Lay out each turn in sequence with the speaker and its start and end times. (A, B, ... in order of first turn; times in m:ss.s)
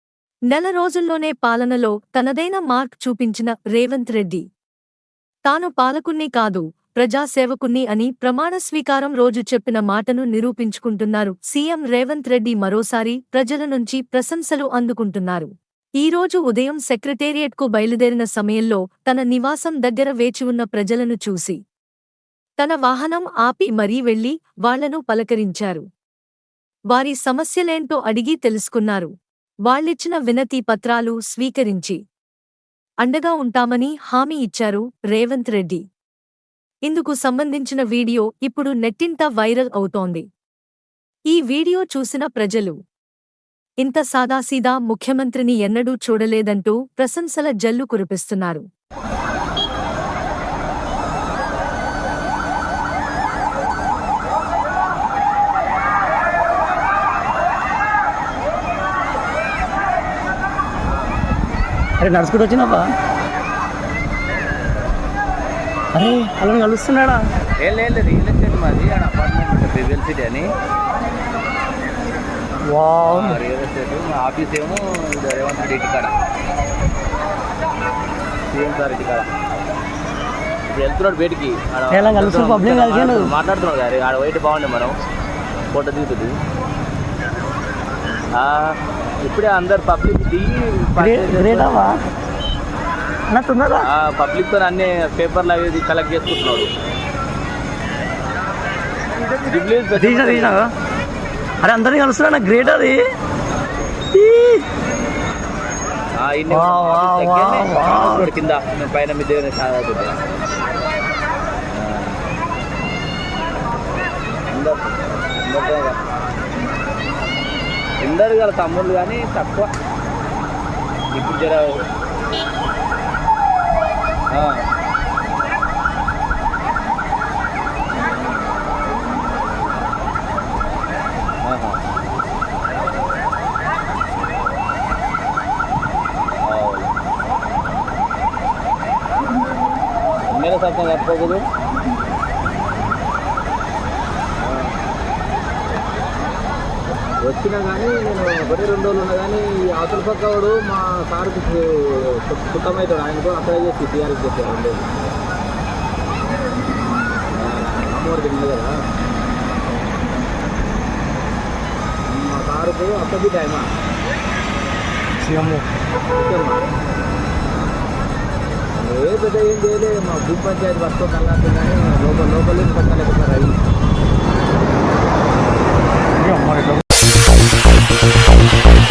0:00.5-0:04.4 A
0:05.5-0:15.5 A
0:16.0-0:21.6 A
0:22.6-0:25.8 A
0:26.9-0:29.1 A
0:29.7-0:32.0 A
0:33.0-0:35.8 A
0:36.9-0:40.2 A
0:41.3-0:42.8 A
0:43.8-0:48.6 A
1:02.0-1:02.9 B
1:05.9-1:07.2 B
1:07.6-1:10.4 C
1:12.7-1:13.4 B
1:13.1-1:16.1 C
1:18.5-1:19.3 C
1:20.7-1:24.9 C
1:21.9-1:23.3 B
1:25.7-1:26.3 C
1:28.4-1:28.7 C
1:29.2-1:31.8 C
1:31.0-1:31.9 B
1:33.3-1:33.9 B
1:33.9-1:36.7 C
1:39.4-1:40.6 C
1:40.0-1:40.7 B
1:41.6-1:43.0 B
1:44.1-1:44.6 B
1:46.2-1:50.2 C
1:46.5-1:48.3 B
1:51.8-1:52.1 C
1:54.5-1:54.9 C
1:55.4-1:56.0 C
1:58.0-1:59.7 C
2:01.1-2:01.8 C
2:04.3-2:04.6 C
2:11.4-2:11.8 C
2:16.4-2:16.9 C
2:20.3-2:21.4 C
2:24.4-2:24.7 C
2:27.2-2:34.9 C
2:37.4-2:38.7 C
2:42.1-2:43.6 C
2:45.3-2:45.6 B
2:46.2-2:46.6 C
2:48.8-2:53.6 C
2:56.2-2:56.8 B